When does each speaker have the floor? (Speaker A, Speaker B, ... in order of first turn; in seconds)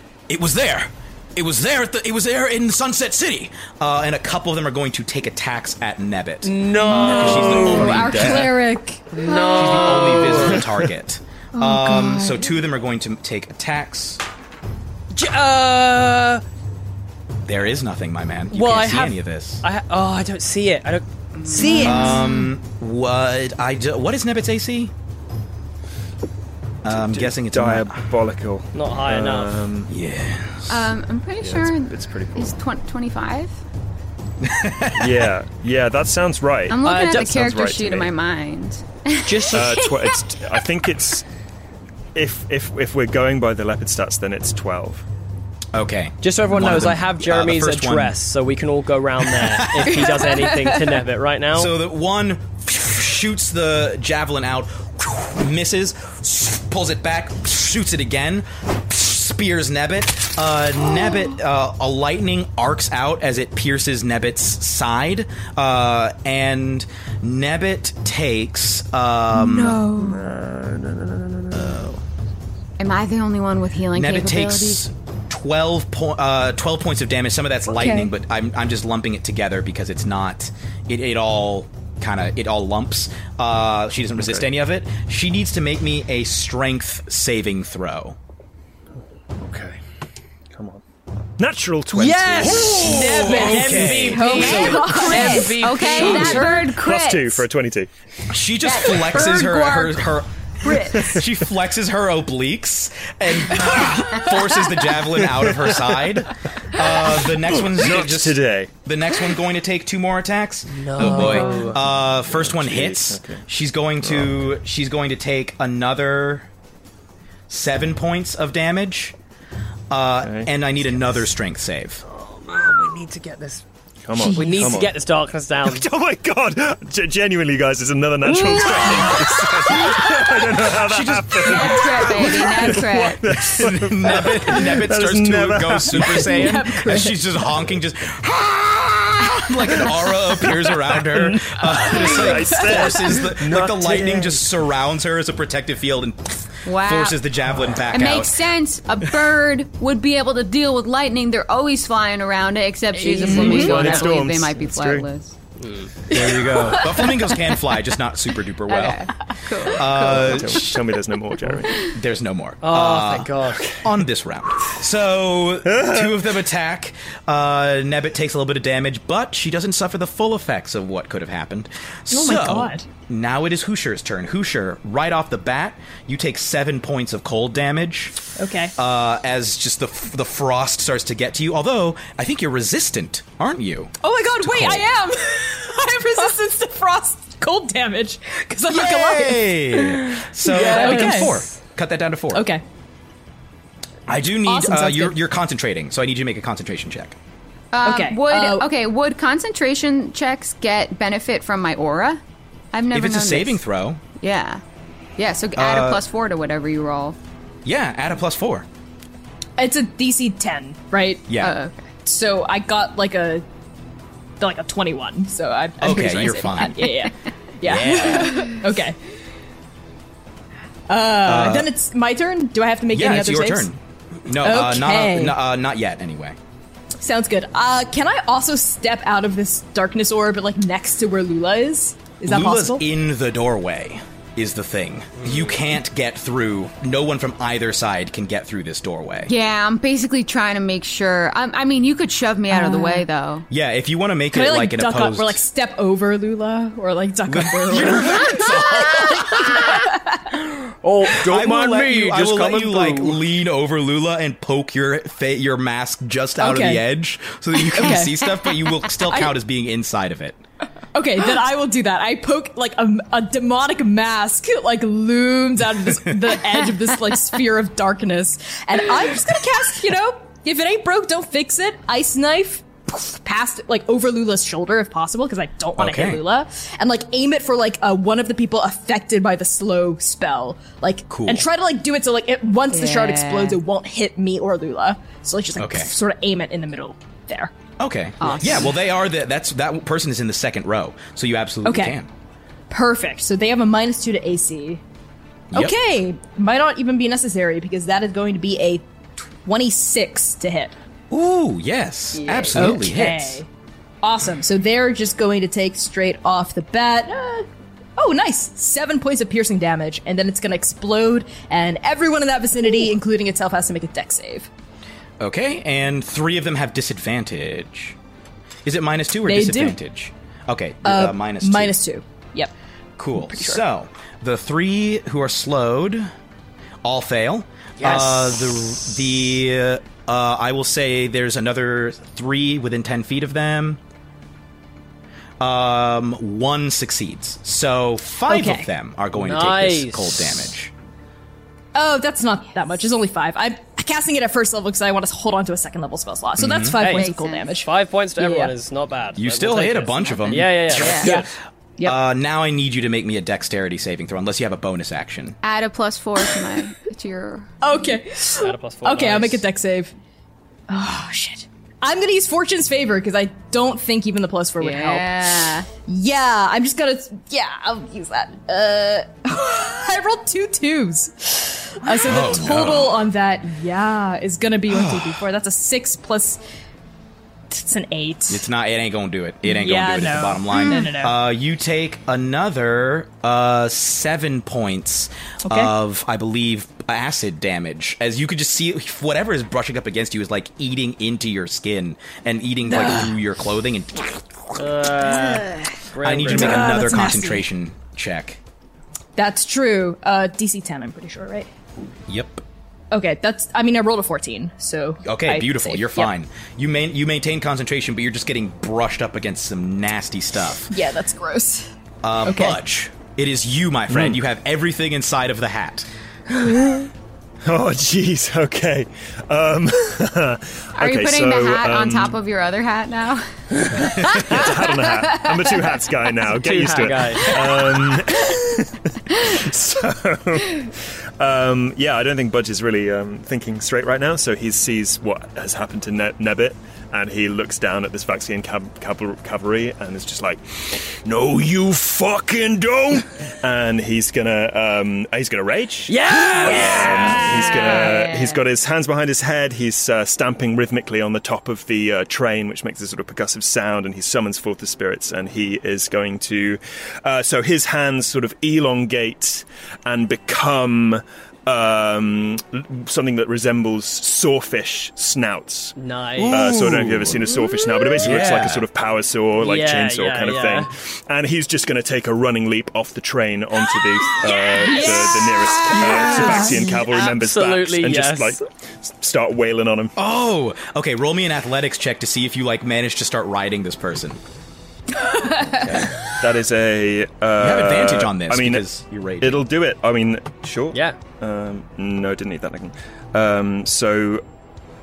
Speaker A: 0.3-8.5, 9.5-14.2, 17.4-19.6, 21.8-24.9, 26.8-28.0, 29.9-30.9, 34.4-35.3, 45.7-48.2, 49.4-50.2, 51.5-69.9, 71.5-72.0, 73.9-88.2, 92.4-94.7, 98.3-116.5, 117.5-119.2, 119.9-122.0, 128.3-148.4, 153.3-154.0, 156.1-159.0, 159.6-160.7, 161.8-178.2, 178.8-184.9, 188.7-192.5, 194.1-197.2, 202.9-204.0, 205.6-206.0, 207.7-208.7, 211.3-211.6, 215.8-217.0, 217.6-218.5, 221.2-221.7, 222.9-226.4, 232.3-239.3, 243.5-245.4, 247.3-249.7, 251.1-260.4, 275.8-276.2, 281.1-281.5, 285.6-285.9, 287.8-292.1, 301.1-303.4, 315.2-318.0, 318.6-321.8, 323.0-326.1, 326.8-333.8, 335.4-340.7, 346.4-346.8, 349.2-351.3, 351.8-355.4, 371.9-373.0, 374.7-375.2, 378.3-394.6, 396.0-398.4, 402.1-402.4, 405.0-410.7, 412.0-415.9, 446.5-447.2, 466.2-467.3, 468.0-468.7, 475.8-476.6, 480.0-484.2, 485.6-485.9, 487.4-489.5
Speaker B: 6.4-8.4, 9.1-10.7, 15.1-16.4, 18.5-22.1, 28.7-29.6, 36.9-37.3, 39.2-39.7, 46.2-51.7, 91.9-96.6, 110.7-111.8, 122.1-123.6, 124.3-125.8, 155.6-155.9, 162.6-163.7, 250.8-253.2, 327.8-328.1, 339.2-340.4, 346.8-351.3, 358.3-359.4, 394.6-397.0, 426.4-427.3, 445.9-448.0, 465.8-466.4, 469.4-470.7, 476.9-478.4
Speaker C: 7.0-8.5, 26.9-29.9, 31.4-32.5, 35.0-38.1, 39.4-41.3, 42.1-45.0, 70.0-71.8, 84.2-84.5, 89.4-89.8, 90.5-90.8, 91.4-93.0, 95.8-97.9, 100.8-101.2, 105.2-106.1, 107.1-108.7, 111.0-113.4, 114.0-114.6, 120.2-120.5, 124.0-124.9, 125.6-136.6, 139.8-144.4, 153.2-155.1, 160.0-161.9, 163.5-163.9, 165.7-166.1, 413.9-414.2, 416.4-416.9, 417.4-422.2, 423.8-465.8, 466.3-479.9, 486.0-488.6, 489.2-494.2
Speaker D: 7.0-9.2, 21.6-22.2, 69.4-70.2, 77.7-78.1, 92.8-96.2, 99.4-99.7, 136.0-137.2, 153.0-153.6, 156.1-157.2, 172.1-172.9, 178.4-178.7, 184.0-191.4, 192.3-192.6, 194.5-195.2, 197.8-198.7, 209.6-211.3, 212.1-213.4, 214.4-219.0, 220.9-223.7, 224.4-225.4, 227.0-232.8, 242.5-243.0, 244.3-250.2, 256.4-256.9, 257.6-259.3, 260.9-287.5, 291.6-292.0, 292.7-294.8, 295.5-300.8, 302.5-303.5, 304.0-314.5, 319.3-319.8, 320.8-322.5, 323.2-323.6, 338.3-338.7, 341.7-348.5, 357.6-359.9, 360.7-376.4, 377.5-378.5, 379.4-381.2, 385.5-385.7, 392.7-393.1, 395.3-395.6, 396.3-397.4, 399.2-401.5, 402.9-406.1, 410.7-411.7, 412.3-412.6, 474.5-476.6, 485.0-485.6
Speaker E: 9.3-9.8, 11.6-12.5, 21.4-22.5, 30.7-33.6, 36.7-40.2, 72.8-74.8, 94.2-97.5, 98.6-99.2, 131.4-133.4, 146.7-147.2, 147.9-155.3, 158.7-160.7, 197.7-202.2, 202.7-203.6, 204.2-204.6, 205.2-207.2, 211.4-211.9, 239.3-243.5, 282.7-283.6, 288.2-288.7, 302.2-302.7, 346.9-347.5, 350.3-351.1, 355.4-357.5, 364.6-365.7, 420.8-425.7, 447.6-448.4